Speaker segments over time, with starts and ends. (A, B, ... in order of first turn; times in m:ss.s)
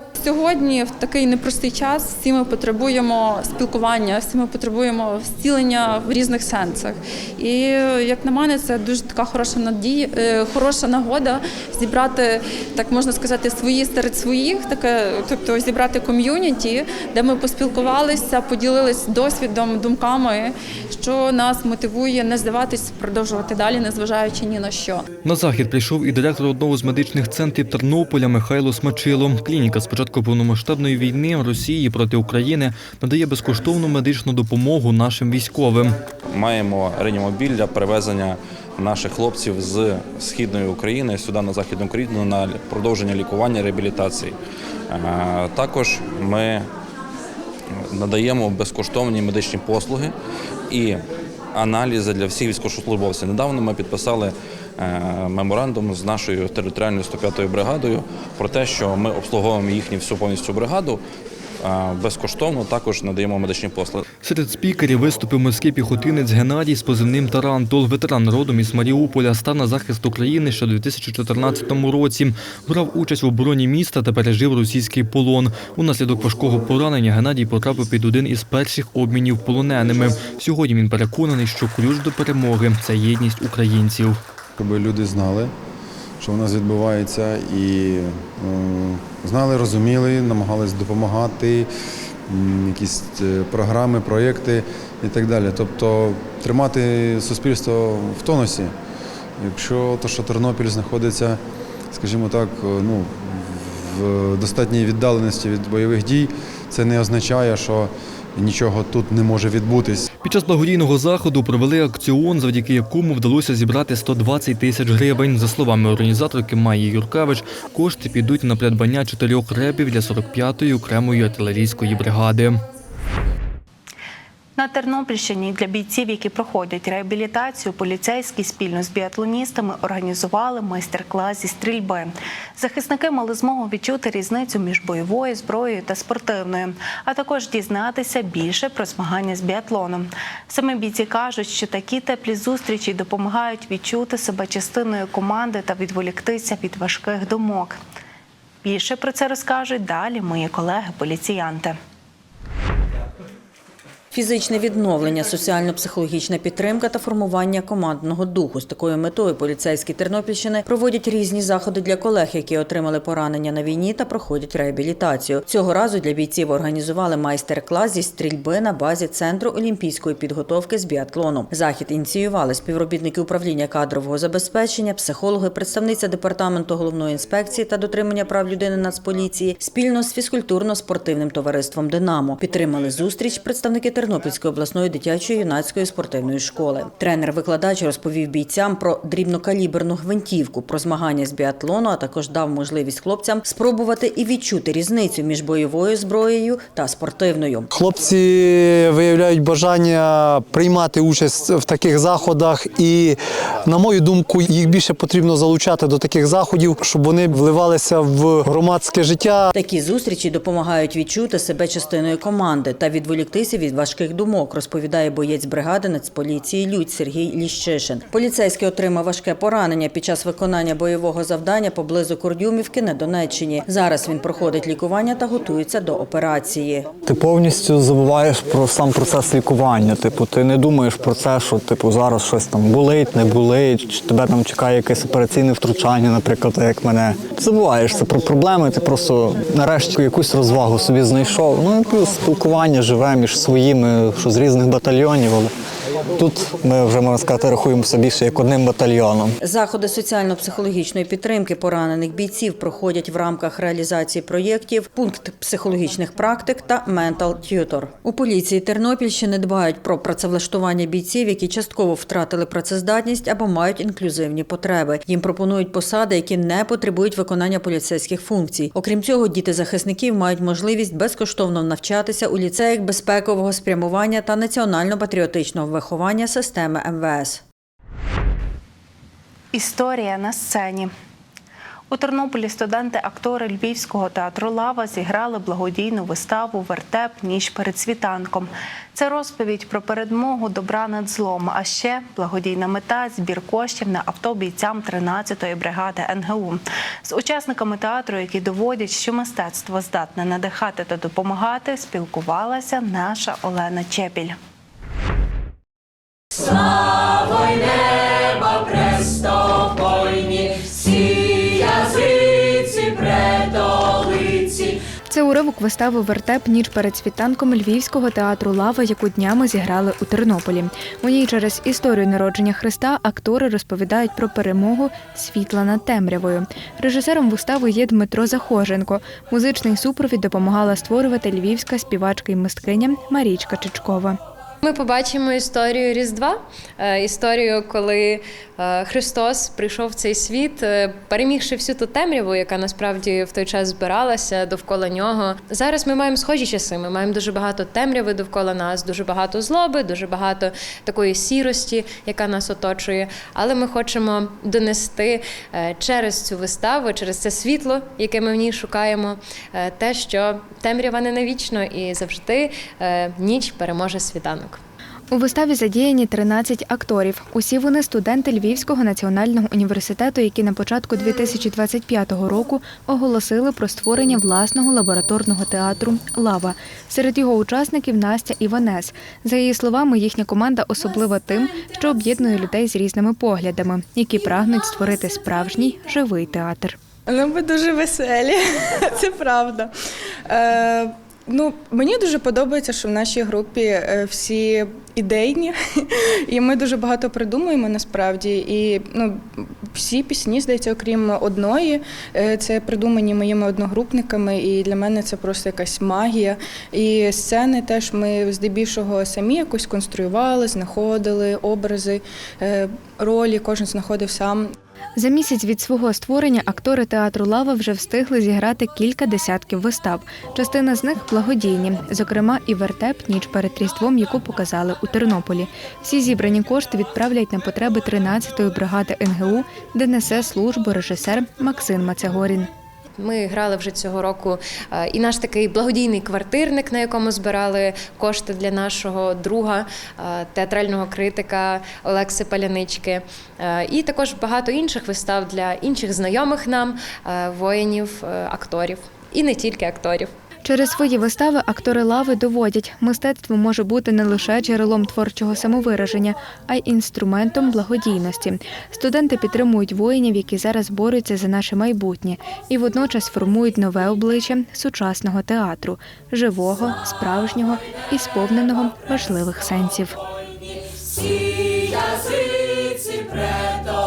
0:00.2-0:25.0 A
0:25.2-0:35.9 B
0:36.3-0:44.4 C
0:44.9-0:46.6 C
0:47.9-0:50.1 C
0:50.7-0:51.0 C
0:51.5-1:01.0 C
1:01.6-1:04.0 C
1:04.2-1:24.2 B
1:24.6-1:25.5 D
1:26.2-1:31.7 D
1:32.3-1:38.7 D
1:39.4-1:41.4 D
1:41.9-1:50.0 D
1:50.2-2:02.6 B
2:04.6-2:27.8 E
2:28.6-2:31.8 E
2:34.1-3:17.7 F
3:17.7-3:29.5 G
3:29.5-3:46.9 F
3:47.0-4:05.5 H
4:06.1-4:09.3 H
4:09.4-4:37.4 F
4:39.5-4:40.9 E
4:41.9-5:04.4 E
5:15.1-5:34.2 I
5:34.6-6:04.6 J
6:05.1-6:26.8 I
6:27.1-6:29.7 K
6:30.3-6:35.5 K
6:36.3-6:54.5 K
6:55.0-7:12.5 I
7:13.0-7:30.1 J
7:30.4-7:50.0 I